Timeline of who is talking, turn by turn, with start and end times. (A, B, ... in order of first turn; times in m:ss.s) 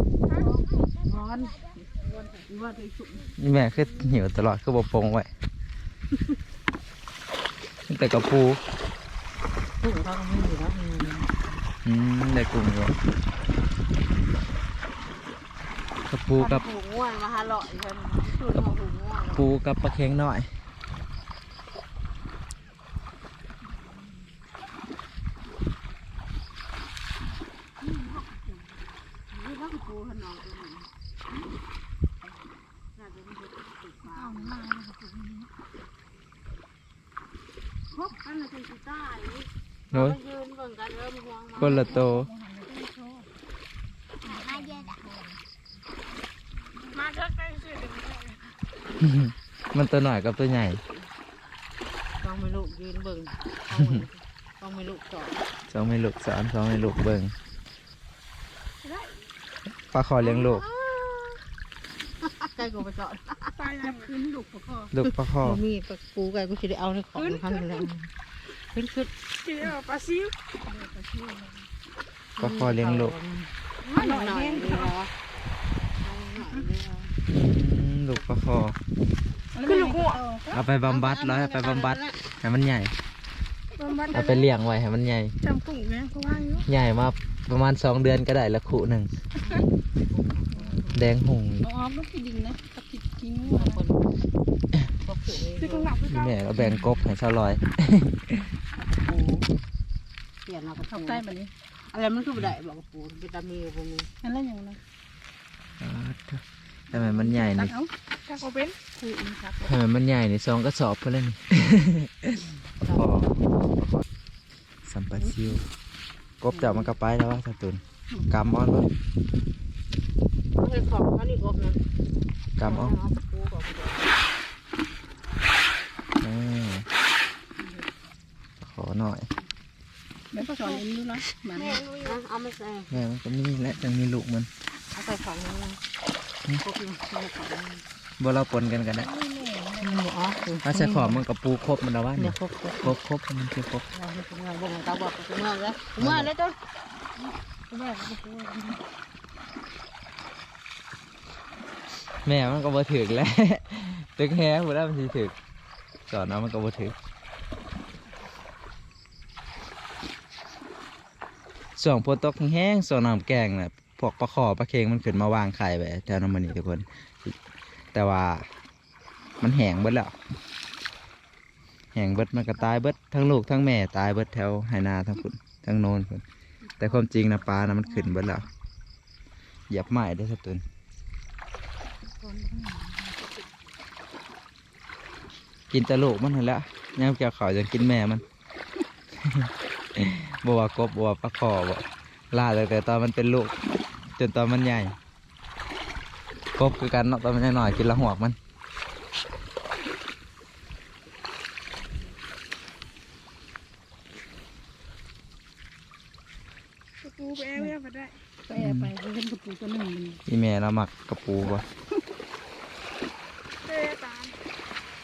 0:00.3-0:00.7 A
0:00.9-0:03.3 B
0:03.4-0:05.3 C
0:07.9-0:08.6 C
0:09.8-0:11.4 B
0:11.8-0:13.0 C
0:16.1-0:16.6 C
0:16.4-0:19.4 B
0:19.3-0:20.5 C
0:27.8-0:28.7 A
0:29.3-0:30.9 B
0:32.9-0:34.6 B
0:34.0-0:35.5 A
0:38.0-0:41.8 B
0:41.6-0:42.3 C
0:41.6-0:43.3 A
0:44.2-0:45.4 A
0:46.9-0:48.4 A
0:49.0-0:50.8 C
0:52.2-0:55.4 B
0:55.7-0:57.3 C
0:58.8-0:59.2 A
0:59.9-1:00.6 C
1:00.2-1:01.4 B
1:02.2-1:03.8 B
1:03.6-1:04.9 A
1:04.9-1:05.6 C
1:05.0-1:08.1 B
1:07.2-1:07.8 A
1:08.7-1:09.1 B
1:09.4-1:11.7 A
1:12.4-1:13.1 C
1:12.4-1:15.1 B
1:13.9-1:14.9 A
1:16.0-1:17.1 B
1:17.3-1:18.8 C
1:19.5-1:20.6 A
1:19.6-1:20.2 B
1:20.5-1:22.9 C
1:20.8-1:22.2 B
1:23.8-1:24.4 A
1:24.1-1:25.3 C
1:25.4-1:26.7 A
1:26.6-1:29.1 C
1:29.4-1:31.0 B
1:30.9-1:31.7 C
1:31.6-1:33.8 A
1:33.4-1:34.1 B
1:35.0-1:36.0 B
1:35.4-1:37.0 A
1:36.1-1:38.5 C
1:38.8-1:39.5 B
1:40.4-1:41.2 B
1:40.9-1:41.5 A
1:41.9-1:44.1 B
1:44.2-1:44.8 A
1:45.8-1:47.7 C
1:47.2-1:49.7 A
1:49.6-1:54.0 C
1:54.8-1:55.6 C
1:56.4-1:58.9 C
1:58.1-1:58.5 A
2:00.6-2:01.8 B
2:02.6-2:03.0 C
2:02.6-2:04.2 B
2:06.2-2:06.9 C
2:08.6-2:09.3 C
2:10.3-2:12.0 A
2:10.4-2:10.8 B
2:11.6-2:12.9 B
2:12.9-2:14.5 C
2:14.9-2:15.8 B
2:16.6-2:17.8 B
2:18.2-2:19.1 C
2:19.0-2:20.1 A
2:19.8-2:21.2 B
2:20.6-2:23.9 C
2:22.2-2:22.9 B
2:23.9-2:26.6 B
2:26.0-2:26.3 C
2:27.7-2:28.8 B
2:32.2-2:35.3 C
2:36.1-2:37.0 C
2:41.8-2:47.4 C
2:47.9-2:48.5 C
2:49.4-2:50.1 C
2:51.9-2:56.2 C
2:56.8-2:58.5 C
2:57.9-2:58.1 A
2:59.7-3:00.6 C
3:02.2-3:03.2 A
3:05.7-3:08.2 C
3:09.2-3:13.5 C
3:14.2-3:15.0 C
3:16.6-3:18.4 C
3:27.0-3:30.2 A
3:28.5-3:28.9 C
3:30.2-3:31.6 C
3:33.6-3:34.4 A